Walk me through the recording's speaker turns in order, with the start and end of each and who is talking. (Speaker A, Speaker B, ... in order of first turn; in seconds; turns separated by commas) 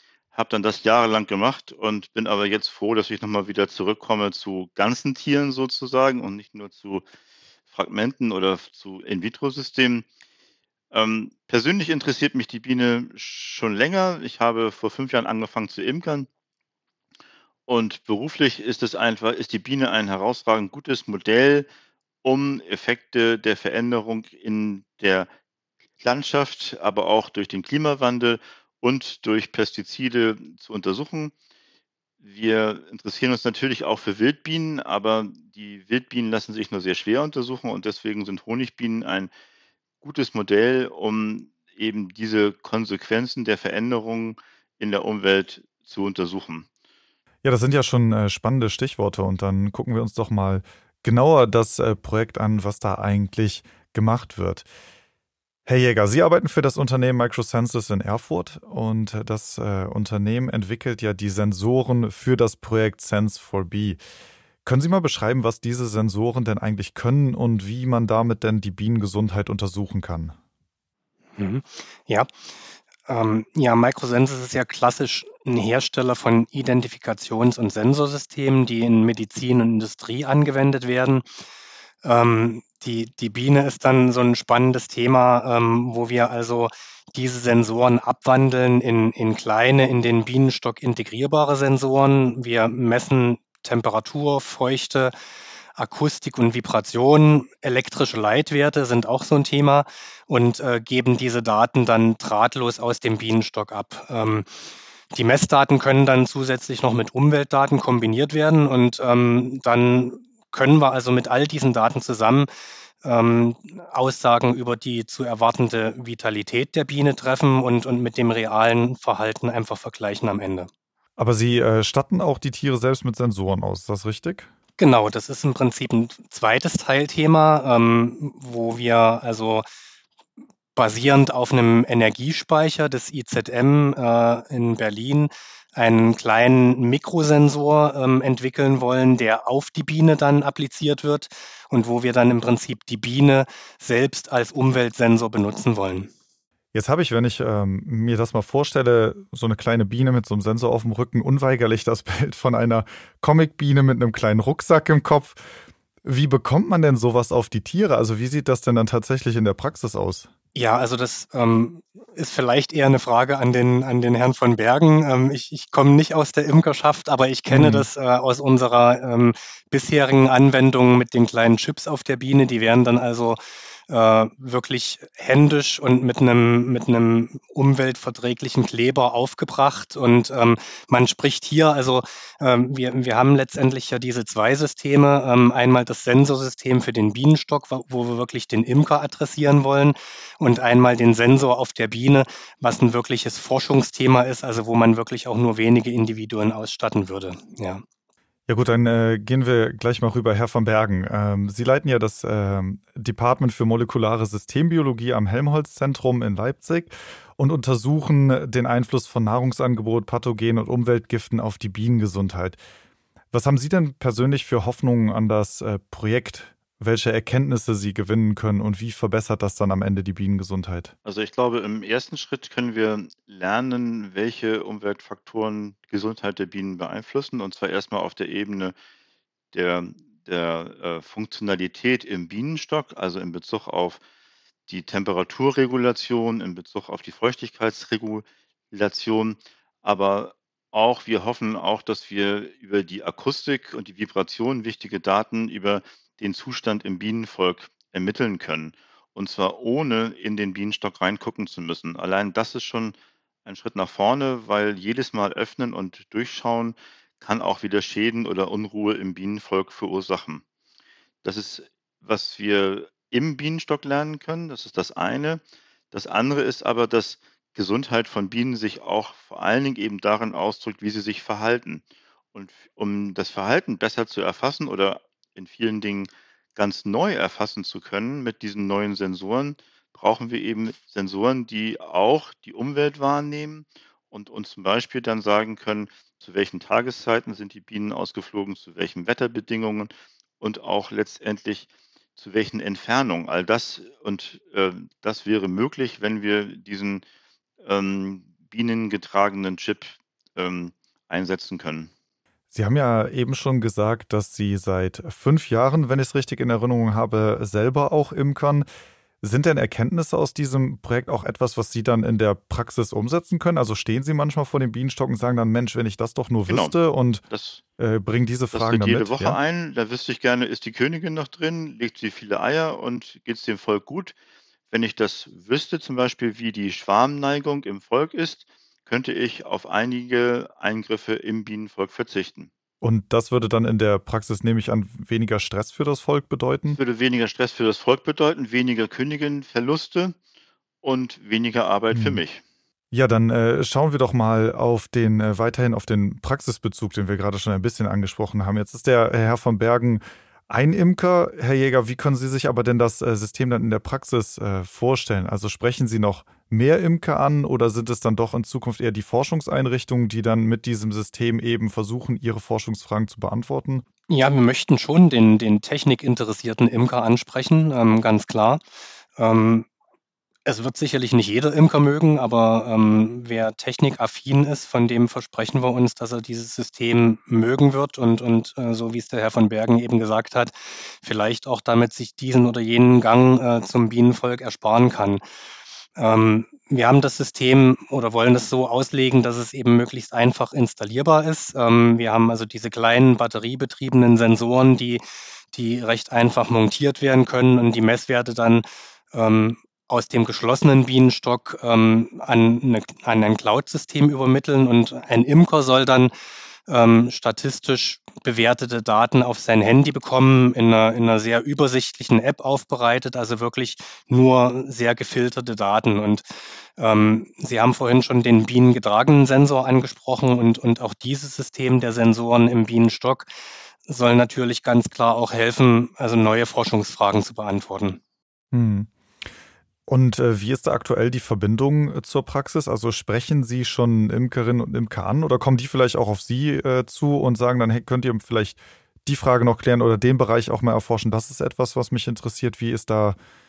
Speaker A: 0.3-7.0, Speaker A: 7.7-10.1, Speaker A: 10.9-16.3, Speaker A: 17.7-21.7, Speaker A: 22.2-25.3, Speaker A: 26.0-31.3, Speaker A: 32.2-39.3, Speaker A: 40.0-46.7, Speaker B: 47.4-54.7, Speaker B: 55.7-64.0, Speaker B: 64.7-70.3, Speaker C: 71.4-72.3, Speaker C: 73.1-81.2, Speaker C: 82.0-95.1, Speaker C: 95.8-104.5, Speaker C: 105.1-112.5, Speaker C: 113.0-120.7, Speaker B: 121.2-124.5, Speaker C: 124.8-129.7, Speaker C: 130.8-146.1, Speaker B: 146.7-155.4, Speaker B: 156.0-160.3, Speaker C: 160.6-197.8, Speaker B: 167.5-167.9, Speaker B: 198.5-212.6, Speaker B: 213.3-220.9, Speaker A: 221.1-228.7, Speaker A: 229.5-234.0, Speaker A: 234.7-260.4, Speaker A: 261.2-297.0, Speaker A: 297.6-301.9, Speaker B: 302.5-308.7, Speaker B: 309.2-317.2, Speaker A: 316.5-316.8, Speaker A: 317.3-317.6, Speaker B: 317.8-319.4, Speaker A: 318.5-324.1, Speaker A: 324.7-332.5, Speaker B: 332.8-336.8, Speaker A: 336.7-340.1, Speaker A: 340.8-342.4, Speaker B: 341.9-342.2, Speaker B: 342.9-363.8, Speaker C: 364.1-368.6, Speaker C: 369.2-369.7, Speaker C: 370.5-385.2, Speaker C: 386.0-406.1, Speaker C: 406.7-423.3, Speaker C: 423.9-428.0, Speaker B: 428.5-428.9, Speaker B: 429.9-443.2